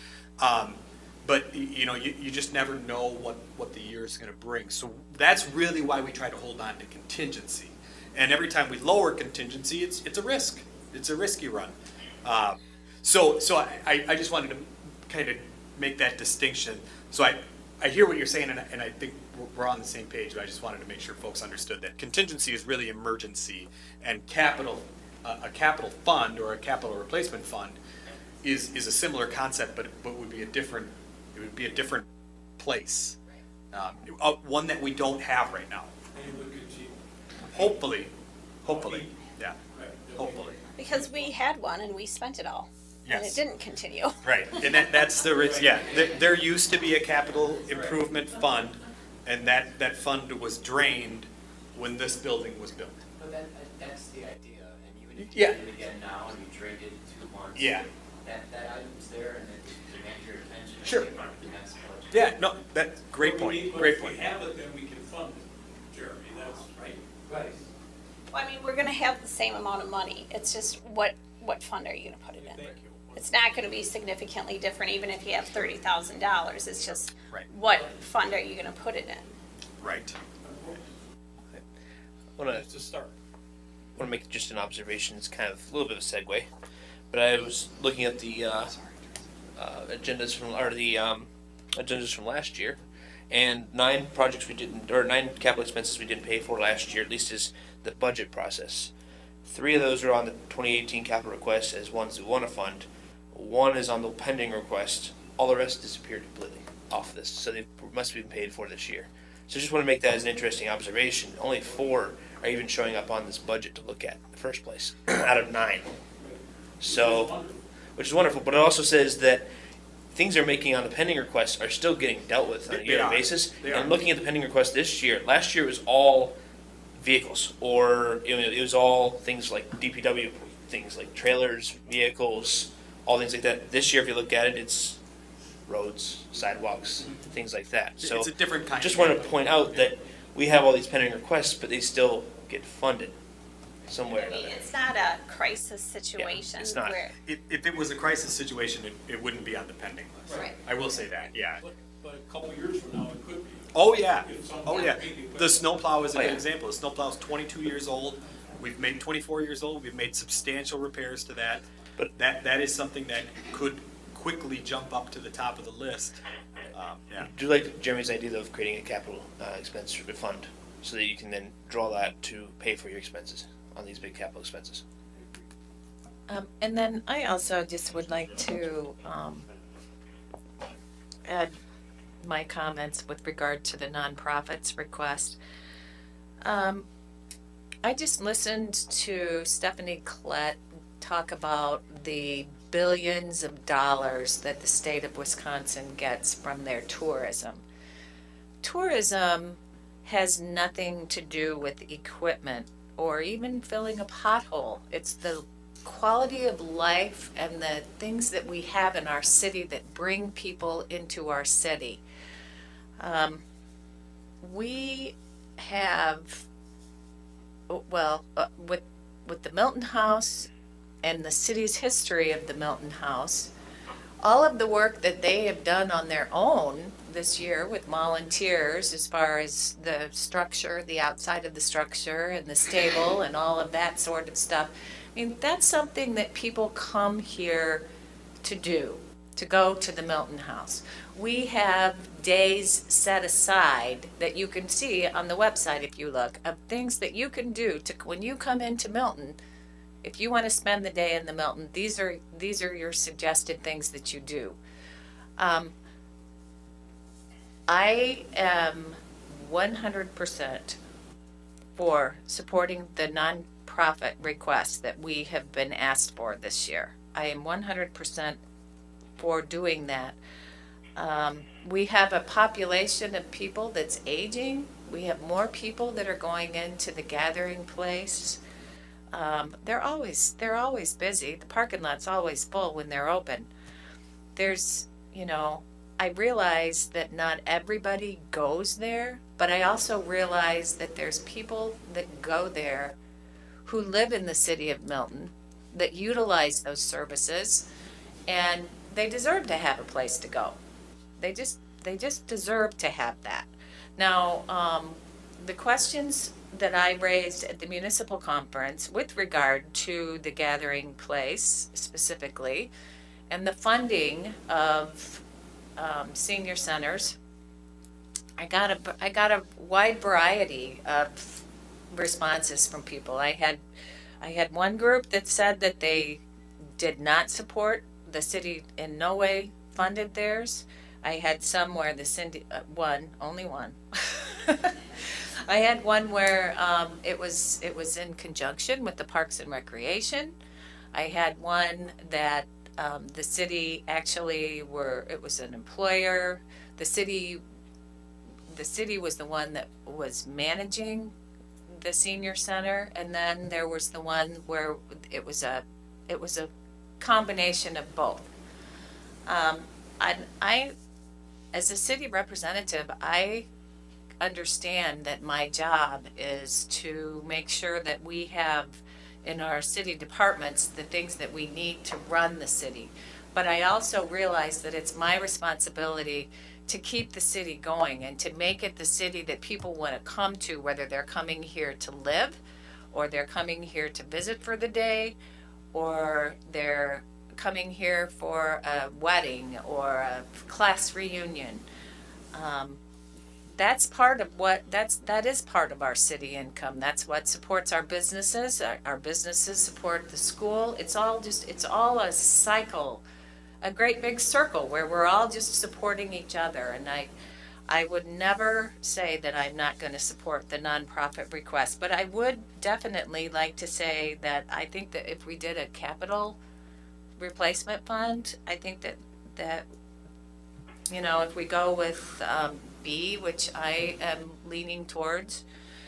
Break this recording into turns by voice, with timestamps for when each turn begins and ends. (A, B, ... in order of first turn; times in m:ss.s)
0:00.4-0:27.8 A
0:28.4-0:33.2 A
0:33.7-0:35.9 A
0:36.1-0:37.0 B
0:37.5-0:38.1 A
0:38.6-0:39.6 A
0:38.6-0:41.3 B
0:40.2-0:40.6 A
0:40.8-0:44.2 C
0:43.1-0:43.4 A
0:44.2-0:53.0 A
0:45.3-0:46.3 B
0:47.7-0:48.0 B
0:53.2-1:02.4 D
0:55.3-0:55.6 A
0:57.6-0:57.9 A
1:00.8-1:01.1 A
1:02.1-1:04.2 A
1:03.1-1:07.6 B
1:08.3-1:19.3 C
1:12.4-1:13.3 B
1:19.8-1:20.2 A
1:20.4-1:20.9 B
1:22.4-1:22.7 E
1:22.5-1:23.1 B
1:24.0-1:26.5 E
1:27.1-1:28.8 E
1:28.6-1:29.1 A
1:29.6-1:32.8 E
1:33.3-1:38.9 E
1:39.4-1:55.9 E
1:51.6-1:52.0 B
1:56.2-1:57.6 B
1:56.8-1:57.4 E
1:58.0-1:59.5 E
2:00.1-2:06.4 E
2:02.7-2:04.0 A
2:07.0-2:15.0 E
2:15.7-2:23.2 E
2:18.0-2:19.8 A
2:23.9-2:24.6 E
2:24.1-2:27.1 C
2:26.2-2:27.0 E
2:27.2-2:31.6 A
2:31.6-2:35.8 B
2:33.7-2:46.2 A
2:36.1-2:36.4 E
2:46.7-2:47.3 A
2:47.3-2:54.8 E
2:56.3-2:59.5 F
3:01.3-3:01.6 F
3:02.2-3:05.4 F
3:06.4-3:06.9 F
3:07.8-3:17.6 F
3:18.6-3:32.0 F
3:33.0-3:33.4 F
3:34.4-3:36.5 F
3:37.7-3:40.5 F
3:41.0-3:43.5 F
3:44.2-3:57.8 F
3:58.4-4:09.4 F
4:10.0-4:14.6 F
4:15.4-4:15.7 F
4:17.7-4:20.8 F
4:21.8-4:28.4 F
4:29.2-4:30.2 F
4:31.0-4:38.4 F
4:39.1-4:43.5 F
4:44.4-4:53.0 F
4:53.6-4:57.6 F
4:58.3-5:00.6 F
5:01.2-5:12.7 F
5:13.3-5:15.2 F
5:15.8-5:17.2 F
5:18.4-5:23.6 F
5:24.2-5:26.2 F
5:26.8-5:34.8 F
5:35.5-5:40.4 F
5:40.9-5:47.4 F
5:48.5-5:51.2 F
5:51.8-5:58.3 F
5:59.3-6:00.7 F
6:01.5-6:03.5 F
6:04.2-6:22.4 F
6:22.9-6:25.2 F
6:25.7-6:31.6 F
6:32.3-6:32.8 F
6:33.6-6:43.0 F
6:43.6-6:47.1 F
6:47.7-6:56.4 F
6:57.2-6:59.7 F
7:00.9-7:05.4 F